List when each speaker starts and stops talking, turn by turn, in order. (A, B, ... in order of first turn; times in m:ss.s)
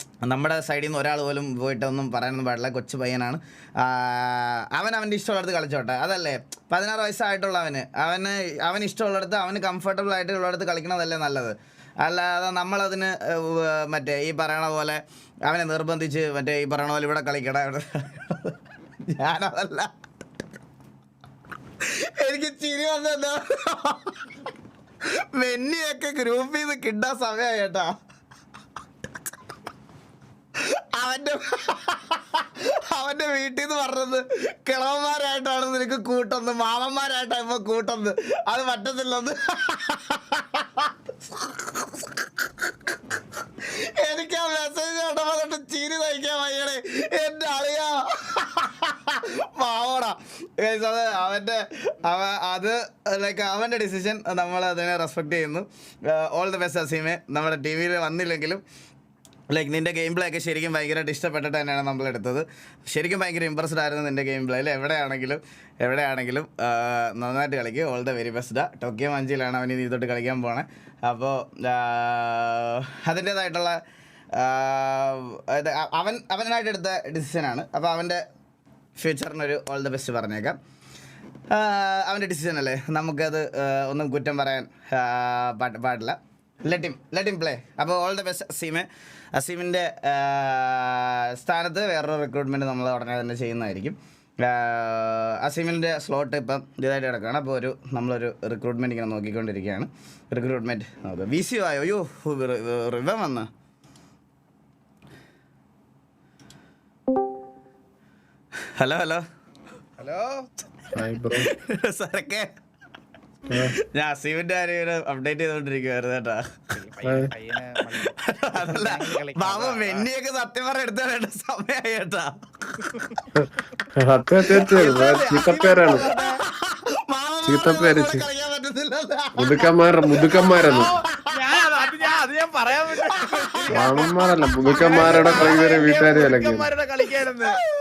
0:00.2-0:18.6 A
0:19.1-0:19.9 A
0:22.0-0:24.2 A
0:25.3-0:27.9 A
0:30.9-0:42.1 A
0:43.7-0:58.6 A
0:59.5-1:13.8 A
1:14.4-1:18.2 A
1:19.0-1:20.6 A
1:21.5-1:43.5 A
1:48.8-1:49.2 A
1:50.0-1:50.4 B
1:50.9-1:51.5 C
1:51.4-1:52.5 A
1:53.9-1:56.4 A
1:56.7-2:00.1 B
1:57.0-1:57.3 C
1:58.0-2:02.3 A
2:02.8-2:03.2 B
2:04.0-2:06.1 C
2:04.5-2:04.9 A
2:04.7-2:06.4 B
2:05.9-2:11.2 A
2:07.4-2:08.2 C
2:09.4-2:10.9 C
2:10.7-2:17.5 B
2:13.6-2:14.1 A
2:13.7-2:16.7 C
2:14.7-2:15.7 A
2:17.2-2:17.6 A